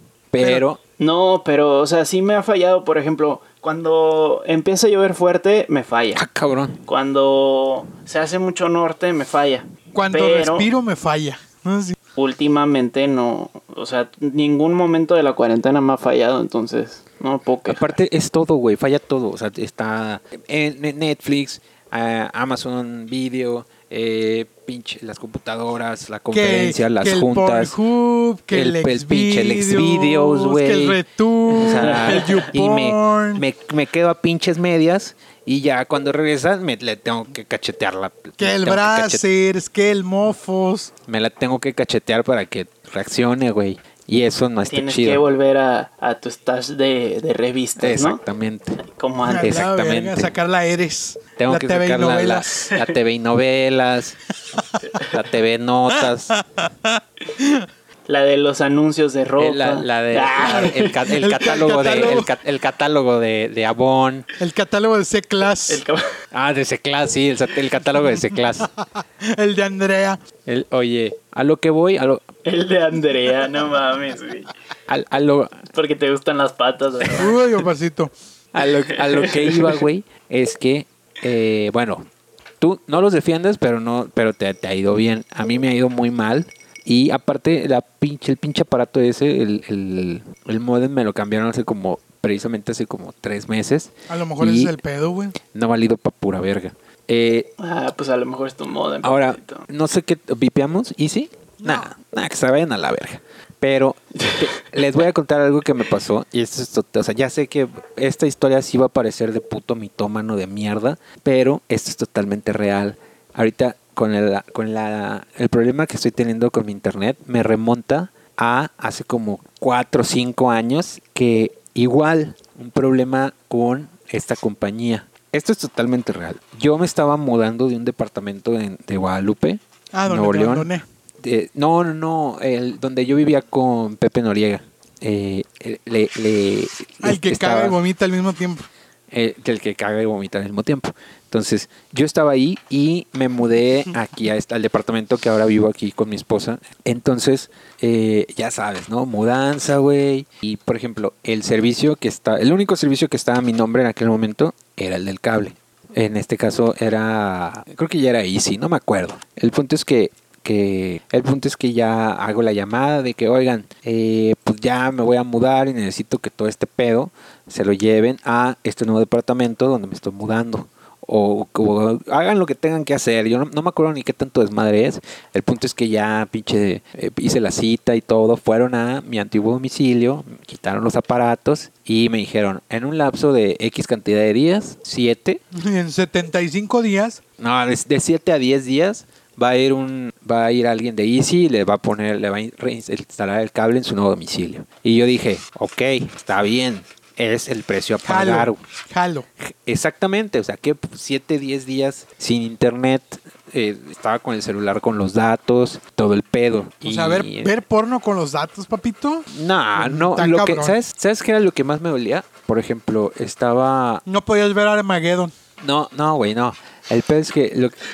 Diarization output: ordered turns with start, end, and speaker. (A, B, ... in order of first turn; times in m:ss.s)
0:00.3-0:00.8 A
0:00.4-0:00.6 B
0:01.0-0:06.2 C
0:06.2-0:06.8 A
0:06.8-0:10.7 C
0:09.9-0:12.0 B
0:12.2-0:18.0 C
0:17.7-0:27.7 A
0:26.3-0:33.4 B
0:28.5-0:31.0 A
0:31.5-0:39.2 A
0:31.9-0:32.4 C
0:38.4-0:40.9 B
0:41.1-0:45.2 A
0:44.7-0:48.2 C
0:47.8-0:48.8 A
0:48.8-0:49.5 C
0:49.2-0:52.7 B
0:49.4-0:50.3 A
0:51.4-0:54.2 A
0:55.0-0:56.4 A
0:56.4-0:57.7 B
0:58.1-1:01.1 C
0:59.4-1:04.2 A
1:01.2-1:02.3 B
1:04.4-1:05.8 B
1:05.7-1:06.1 C
1:06.3-1:08.7 A
1:09.2-1:10.2 B
1:10.4-1:12.2 A
1:12.4-1:14.5 C
1:14.9-1:15.6 A
1:15.7-1:17.3 C
1:17.2-1:18.1 B
1:18.5-1:22.0 A
1:18.9-1:19.8 C
1:22.6-1:34.8 A
1:34.1-1:35.4 B
1:35.4-1:37.5 A
1:37.6-1:39.6 C
1:39.0-2:10.7 A
1:41.6-1:41.9 B
2:09.9-2:10.8 B
2:11.2-2:17.8 A
2:17.0-2:18.6 B
2:19.1-3:05.4 A
3:05.5-3:07.2 B
3:07.4-3:18.6 A
3:18.0-3:19.3 B
3:19.5-3:27.5 A
3:26.8-3:30.8 B
3:29.3-3:34.0 A
3:34.0-3:35.3 B
3:35.6-3:37.7 A